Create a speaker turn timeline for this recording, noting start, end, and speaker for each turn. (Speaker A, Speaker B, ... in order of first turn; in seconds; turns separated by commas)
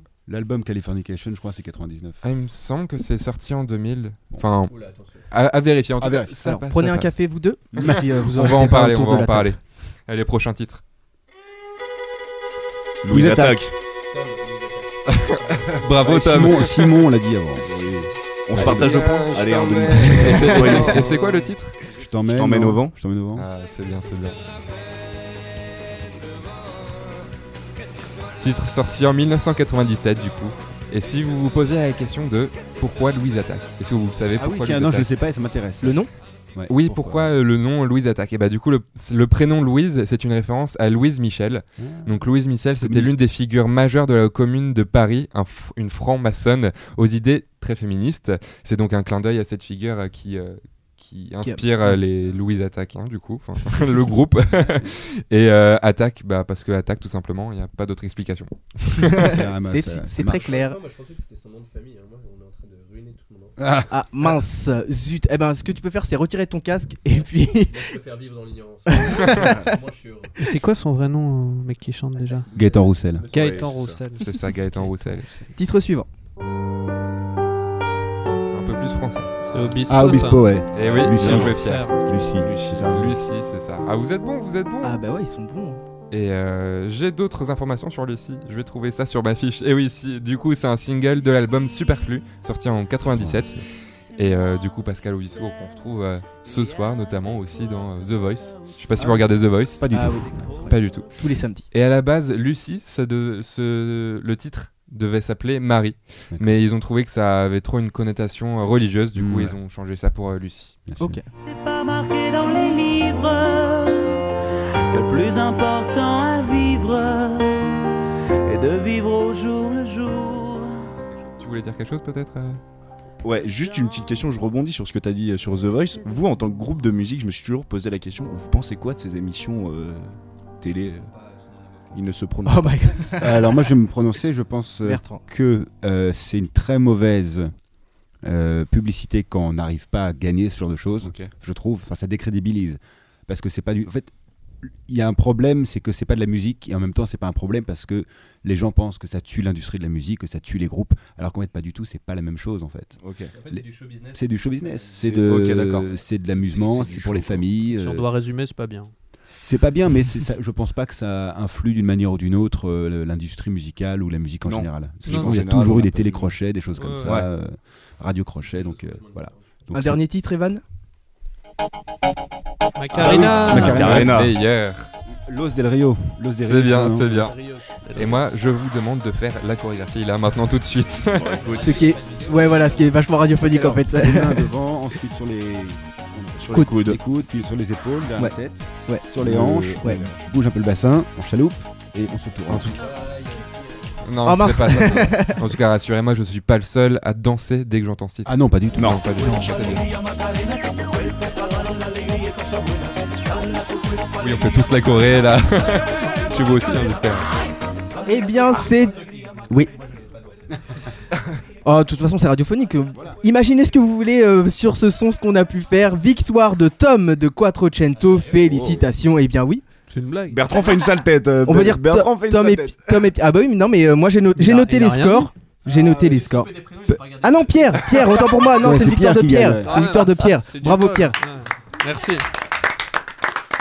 Speaker A: 0.3-2.2, Speaker B: 2.2-7.1, Speaker C: 4.7-5.3, Speaker A: 6.0-6.3, Speaker D: 6.4-9.6, Speaker A: 7.8-8.7, Speaker B: 7.8-10.8, Speaker E: 13.0-13.7, Speaker A: 13.1-13.6, Speaker C: 14.1-14.9, Speaker B: 15.1-17.0, Speaker A: 15.8-17.9, Speaker E: 17.6-21.2, Speaker A: 18.5-18.9, Speaker B: 18.5-21.8, Speaker F: 19.4-19.9, Speaker A: 21.9-23.5, Speaker E: 22.2-22.9, Speaker B: 23.4-24.4, Speaker B: 28.4-35.1, Speaker A: 34.4-37.3, Speaker D: 35.8-36.1, Speaker B: 36.7-59.4, Speaker A: 41.8-43.2, Speaker D: 51.4-52.0, Speaker A: 53.7-54.1, Speaker A: 59.2-60.6, Speaker D: 59.2-60.8, Speaker C: 60.3-63.5, Speaker A: 63.6-64.3, Speaker D: 63.9-68.0, Speaker C: 67.7-70.3, Speaker D: 68.9-69.7, Speaker F: 70.3-72.5, Speaker C: 72.5-73.7, Speaker A: 72.5-73.3, Speaker F: 73.2-75.5, Speaker E: 73.3-74.0, Speaker B: 74.2-75.3, Speaker D: 75.6-76.1, Speaker B: 78.5-79.8, Speaker F: 79.5-80.6, Speaker A: 79.8-83.2, Speaker B: 80.7-81.9, Speaker E: 81.2-81.6, Speaker F: 81.3-82.1, Speaker E: 82.1-82.9, Speaker B: 82.7-85.0, Speaker D: 84.8-85.8, Speaker B: 86.1-99.9, Speaker A: 93.1-93.5, Speaker A: 99.0-100.7, Speaker D: 99.9-101.7, Speaker B: 100.7-101.1, Speaker B: 101.7-110.8, Speaker A: 109.2-109.6, Speaker A: 110.9-111.2, Speaker D: 111.0-111.2, Speaker G: 111.4-114.2, Speaker G: 114.9-117.6, Speaker G: 118.4-120.9, Speaker B: 121.0-122.6, Speaker E: 123.2-131.1, Speaker C: 131.1-131.9, Speaker E: 131.9-133.1, Speaker D: 132.5-133.4, Speaker A: 133.2-137.5, Speaker D: 134.8-135.2, Speaker A: 138.2-158.1, Speaker E: 141.0-141.3, Speaker E: 153.0-153.3, Speaker C: 153.4-154.9, Speaker E: 155.0-155.9, Speaker C: 156.4-156.9, Speaker E: 156.7-157.4, Speaker F: 157.6-158.9, Speaker A: 159.4-170.0, Speaker E: 164.4-166.4, Speaker F: 165.1-165.4, Speaker F: 166.8-167.2, Speaker C: 168.4-169.4, Speaker D: 169.7-170.6, Speaker F: 172.8-174.0, Speaker A: 172.9-174.3, Speaker E: 173.0-174.3, Speaker B: 173.0-174.9, Speaker A: 175.1-177.1, Speaker B: 176.4-177.3, Speaker F: 177.0-178.4, Speaker B: 177.9-181.4, Speaker C: 181.1-182.9, Speaker E: 181.4-181.7, Speaker D: 181.6-184.5, Speaker A: 183.4-192.8, Speaker E: 186.4-187.0, Speaker E: 189.2-190.3, Speaker C: 192.8-194.0, Speaker B: 194.0-199.9, Speaker D: 194.2-195.4, Speaker A: 198.2-199.7, Speaker E: 198.8-199.8, Speaker B: 204.2-207.3, Speaker D: 208.1-209.7, Speaker C: 209.0-210.4, Speaker D: 211.6-219.6, Speaker E: 218.4-218.8, Speaker F: 219.9-220.5, Speaker E: 220.3-223.1, Speaker D: 221.4-231.2, Speaker F: 224.4-225.3, Speaker A: 228.6-229.8, Speaker F: 229.6-232.3